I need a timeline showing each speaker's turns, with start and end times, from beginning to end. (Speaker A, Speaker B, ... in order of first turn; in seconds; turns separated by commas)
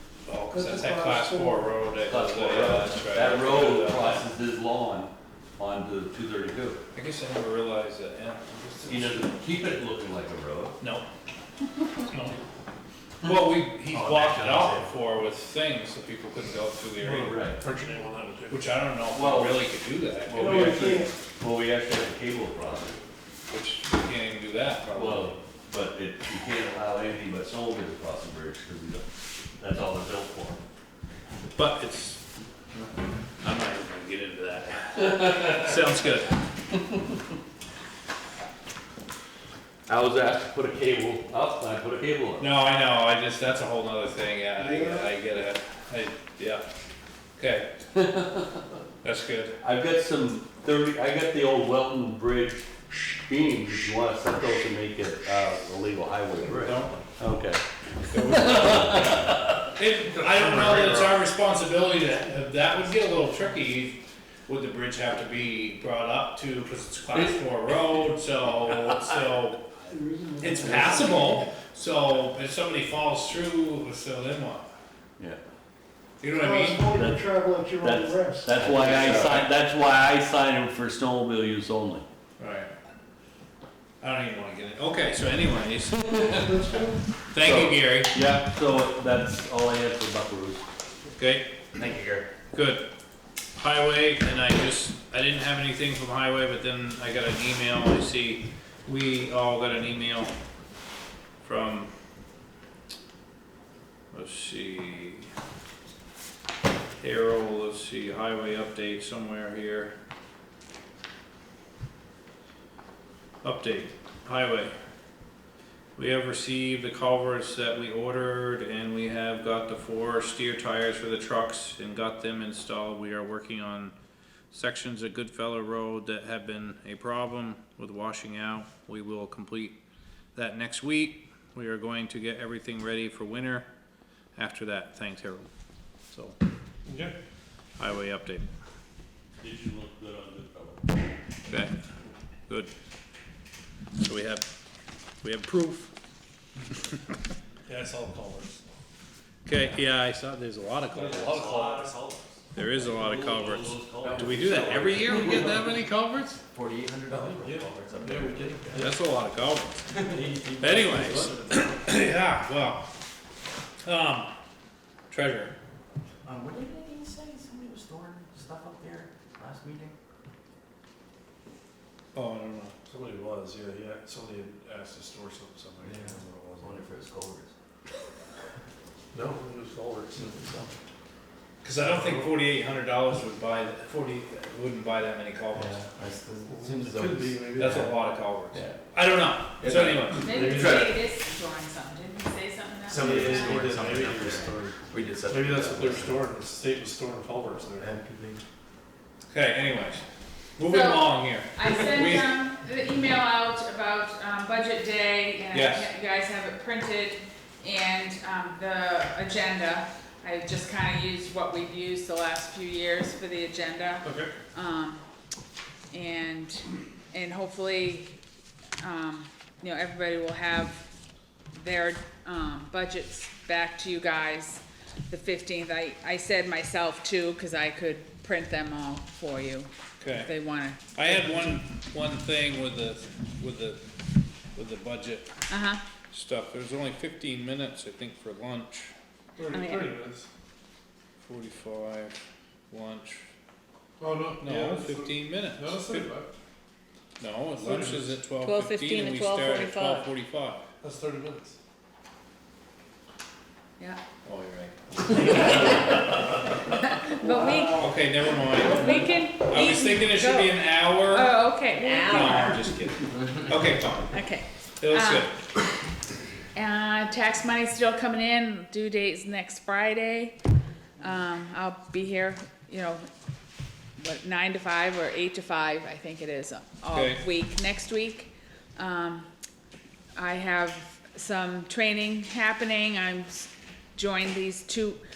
Speaker A: 0.2-4.2, Speaker B: 0.5-1.8, Speaker C: 2.0-6.8, Speaker A: 6.9-9.2, Speaker C: 8.9-10.8, Speaker A: 10.8-11.1, Speaker A: 12.1-12.4, Speaker A: 13.2-17.4, Speaker D: 13.9-14.7, Speaker C: 17.0-17.6, Speaker E: 17.5-18.7, Speaker A: 18.5-21.1, Speaker C: 19.1-19.6, Speaker C: 20.2-23.0, Speaker B: 20.4-21.1, Speaker A: 23.5-25.4, Speaker C: 24.9-29.1, Speaker C: 29.6-30.6, Speaker A: 31.5-32.2, Speaker A: 33.4-36.4, Speaker C: 39.9-42.5, Speaker A: 42.4-46.6, Speaker B: 44.6-45.1, Speaker A: 47.4-47.7, Speaker C: 48.0-48.6, Speaker A: 49.0-49.5, Speaker C: 49.6-57.6, Speaker A: 56.5-57.1, Speaker A: 58.0-69.6, Speaker C: 58.1-59.6, Speaker E: 60.1-61.2, Speaker C: 67.1-67.4, Speaker B: 69.9-71.4, Speaker A: 70.4-74.7, Speaker A: 76.2-76.9, Speaker B: 76.4-79.3, Speaker C: 76.9-82.0, Speaker A: 78.7-79.5, Speaker A: 82.4-82.7, Speaker A: 84.0-86.2, Speaker B: 86.3-87.0, Speaker A: 87.3-88.1, Speaker C: 87.4-90.6, Speaker A: 91.2-91.5, Speaker A: 92.5-92.8, Speaker A: 93.5-100.3, Speaker A: 101.4-101.9, Speaker A: 104.1-105.3, Speaker A: 107.0-109.9, Speaker A: 113.4-114.7, Speaker A: 116.0-123.9, Speaker A: 124.5-129.8, Speaker A: 130.3-133.7, Speaker A: 134.3-135.5, Speaker A: 136.1-136.4, Speaker E: 136.8-137.1, Speaker A: 137.8-138.4, Speaker C: 139.4-140.8, Speaker A: 141.5-141.7, Speaker A: 144.0-144.4, Speaker A: 145.2-145.9, Speaker E: 147.7-148.6, Speaker A: 149.4-151.6, Speaker E: 150.9-152.0, Speaker C: 151.3-151.9, Speaker A: 152.5-156.4, Speaker C: 152.7-155.5, Speaker E: 154.0-155.5, Speaker E: 157.1-158.9, Speaker C: 157.5-158.3, Speaker A: 158.8-159.8, Speaker D: 160.3-160.9, Speaker A: 160.6-162.8, Speaker E: 161.0-161.3, Speaker A: 163.8-164.3, Speaker A: 165.1-165.5, Speaker A: 172.1-172.7, Speaker E: 172.9-176.8, Speaker C: 176.8-177.4, Speaker E: 179.1-180.6, Speaker A: 181.6-185.8, Speaker E: 181.8-182.3, Speaker D: 185.5-187.9, Speaker E: 186.4-187.8, Speaker A: 187.6-190.4, Speaker E: 189.8-190.9, Speaker F: 190.2-194.6, Speaker D: 192.9-196.1, Speaker E: 192.9-197.9, Speaker A: 199.3-200.0, Speaker A: 200.6-202.3, Speaker F: 200.7-215.0, Speaker A: 205.5-205.9, Speaker E: 214.0-214.3, Speaker F: 215.9-218.2, Speaker F: 218.8-220.8, Speaker F: 221.5-231.1, Speaker A: 230.0-233.8, Speaker A: 234.5-235.3, Speaker F: 235.5-235.8, Speaker A: 236.1-238.9, Speaker E: 239.3-240.3, Speaker F: 239.5-239.9, Speaker A: 241.2-242.2, Speaker A: 242.7-243.2, Speaker E: 244.0-246.3, Speaker A: 244.4-246.1, Speaker A: 247.2-250.6, Speaker E: 247.5-248.2, Speaker F: 248.4-250.0, Speaker E: 250.8-251.5, Speaker A: 254.2-255.3, Speaker F: 255.1-257.9, Speaker B: 257.2-257.9, Speaker A: 257.7-264.2, Speaker F: 258.5-262.6, Speaker F: 264.1-265.3, Speaker A: 264.8-265.3, Speaker F: 266.5-270.4, Speaker F: 271.0-273.1, Speaker F: 274.0-279.3, Speaker A: 276.9-277.2, Speaker F: 280.1-285.0